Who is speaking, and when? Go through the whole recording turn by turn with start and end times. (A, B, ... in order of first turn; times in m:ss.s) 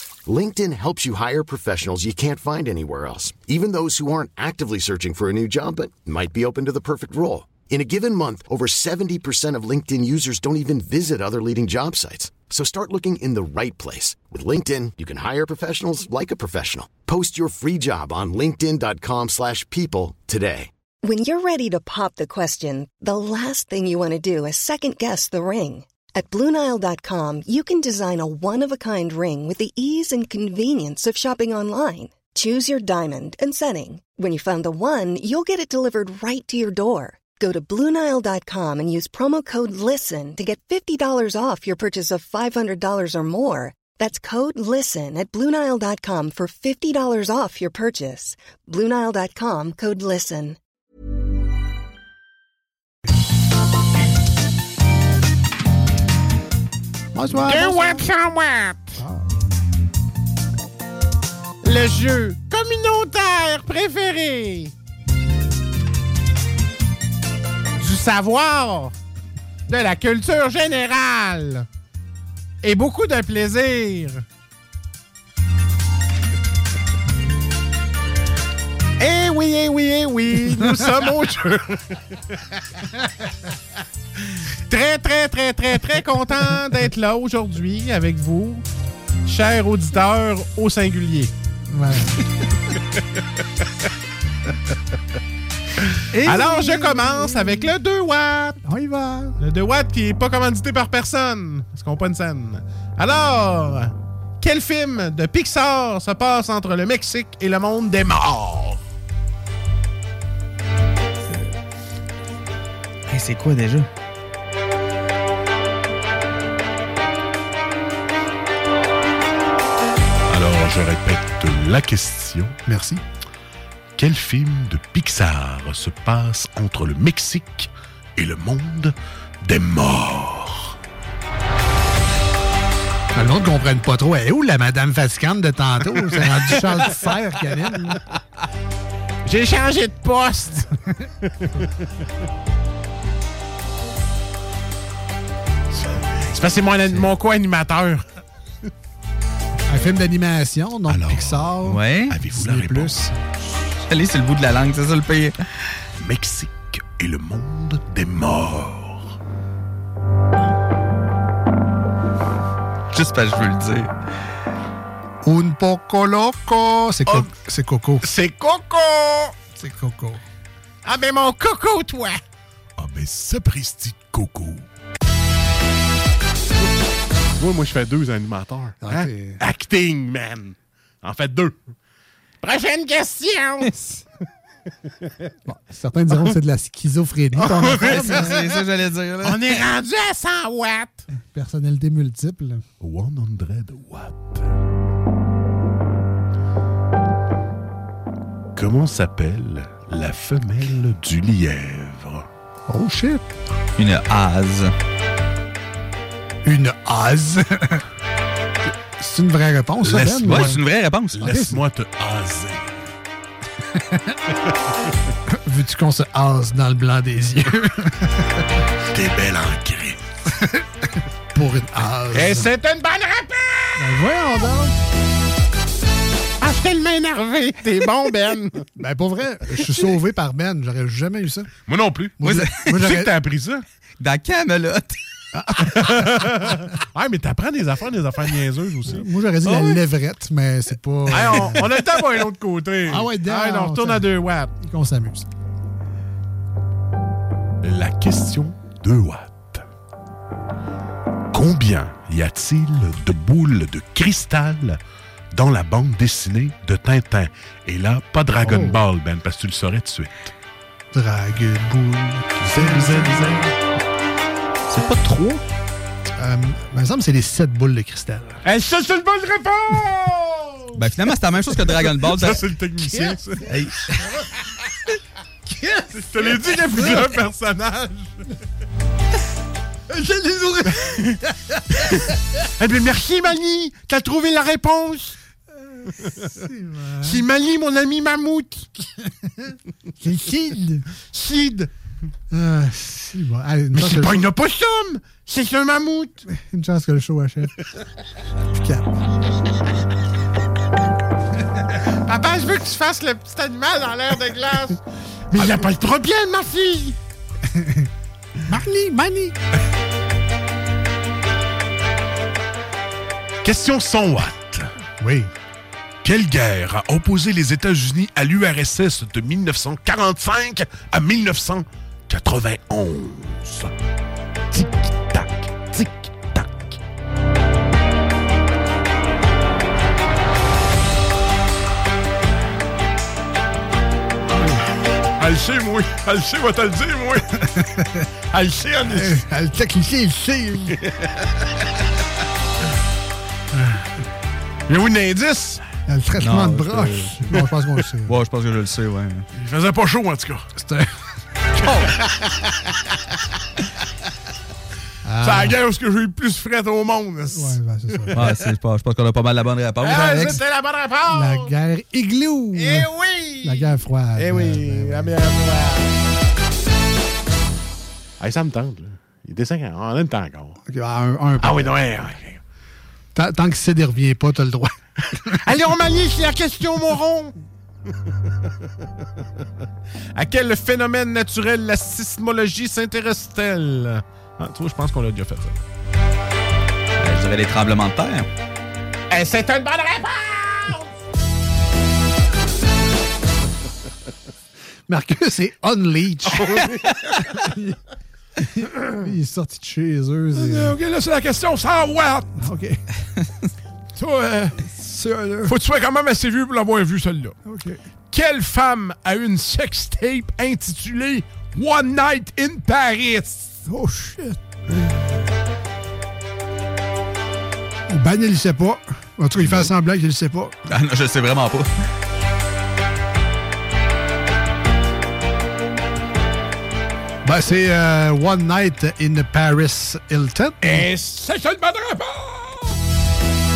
0:00.3-0:20.7 A
0:21.0-0:50.6 B
0:57.1-0:58.1 C
0:57.4-0:59.0 D
0:59.0-0:59.4 C
1:01.6-1:04.7 D
1:07.8-1:09.0 D
1:09.7-1:11.7 D
1:12.6-1:14.2 D
1:19.0-1:22.2 D
1:24.7-1:28.7 D
1:29.3-1:31.3 D
1:31.7-1:32.3 C
1:36.1-1:37.7 C
1:36.2-1:38.6 D
1:38.6-1:39.4 C
1:39.4-1:48.8 D
2:00.3-2:02.6 E
2:02.7-2:03.0 C
2:04.0-2:10.8 E
2:13.1-2:18.0 C
2:19.2-2:20.7 D
2:25.7-2:26.2 E
2:26.4-2:28.0 D
2:29.7-2:33.2 C
2:30.9-2:33.0 E
2:31.7-2:32.2 F
2:33.9-2:35.4 F
2:36.0-2:39.2 E
2:42.9-2:43.9 F
2:45.2-2:48.1 C
2:48.0-2:49.4 D
2:49.6-2:50.2 C
2:50.8-2:52.2 D
2:52.8-2:54.7 E
2:57.3-3:01.6 E
2:58.8-2:59.4 C
3:02.4-3:03.8 D
3:05.5-3:08.5 C
3:07.4-3:08.6 D
3:07.8-3:09.5 F
3:09.2-3:11.0 D
3:11.2-3:12.6 C
3:12.8-3:14.6 E
3:18.6-3:22.3 E
3:22.7-3:23.2 C
3:23.8-3:24.7 F
3:26.4-3:27.8 C
3:28.8-3:30.6 C
3:29.8-3:30.6 E
3:30.2-3:31.3 F
3:31.1-3:32.9 E
3:31.3-3:31.6 C
3:33.7-3:34.2 C
3:35.3-3:38.4 C
3:38.9-3:40.0 E
3:40.3-3:42.5 C
3:42.1-3:44.0 D
3:43.8-3:44.8 C
3:46.4-3:48.6 D
3:48.8-3:51.5 C
3:51.7-3:52.2 E
3:52.2-3:53.1 C
3:52.2-3:52.8 F
3:52.8-3:53.6 E
3:54.0-3:55.0 F
3:55.3-3:56.6 C
3:55.7-3:59.1 E
3:58.9-4:01.8 C
3:59.4-3:59.8 F
4:01.1-4:01.9 D
4:01.4-4:03.0 E
4:02.8-4:05.3 C
4:03.0-4:04.5 D
4:07.6-4:09.7 E
4:11.3-4:14.8 E
4:15.3-4:20.3 E
4:18.4-4:18.8 C
4:20.9-4:23.1 C
4:22.4-4:23.5 E
4:24.7-4:25.4 F
4:26.2-4:28.4 C
4:28.4-4:30.9 D
4:30.8-4:32.5 F
4:32.1-4:33.4 E
4:32.9-4:33.2 D
4:33.5-4:34.0 F
4:35.6-4:37.0 C
4:36.1-4:38.1 E
4:39.9-4:40.8 C
4:42.6-4:45.2 D
4:45.9-4:47.2 C
4:47.0-4:48.8 D
4:49.1-4:50.9 C
4:51.0-4:51.7 D
4:52.3-4:54.2 C
4:53.7-4:56.2 D
4:56.3-4:57.6 C
4:58.5-4:58.9 C
5:01.7-5:07.0 D
5:05.4-5:05.9 E
5:07.5-5:07.9 C
5:08.5-5:09.4 C
5:13.4-5:14.7 E
5:15.0-5:15.3 C
5:16.0-5:23.7 E
5:24.5-5:26.8 E
5:35.2-5:37.4 E
5:37.4-5:38.1 C
5:38.3-5:39.2 E
5:38.8-5:40.8 C
5:43.5-5:43.8 C
5:44.7-5:45.6 E
5:45.9-5:48.2 C
5:46.2-5:47.3 F
5:48.1-5:49.3 F
5:49.4-5:50.4 E
5:50.6-5:50.9 C
5:52.3-5:52.5 D
5:55.0-5:55.6 C
5:55.2-5:58.1 E
5:57.3-5:58.3 C
5:58.1-6:00.4 F
5:59.8-6:01.5 D
6:01.1-6:02.9 C
6:02.6-6:06.2 D
6:03.4-6:05.2 C
6:08.2-6:10.6 E
6:10.6-6:11.7 C
6:11.4-6:12.4 E
6:13.1-6:15.4 C
6:15.4-6:17.4 D
6:20.1-6:25.6 D
6:27.0-6:28.3 F
6:29.1-6:30.9 D
6:34.9-6:36.6 C
6:36.8-6:37.2 F
6:37.2-6:37.8 C
6:38.5-6:40.8 C
6:40.3-6:42.4 E
6:42.4-6:42.8 C
6:44.0-6:45.6 C
6:45.4-6:47.4 E
6:47.4-6:47.8 C
6:48.1-6:53.6 E
6:53.7-6:54.4 C
6:57.9-7:00.6 C
6:59.4-6:59.7 F
7:00.7-7:01.7 F
7:07.2-7:10.9 C
7:10.6-7:12.8 E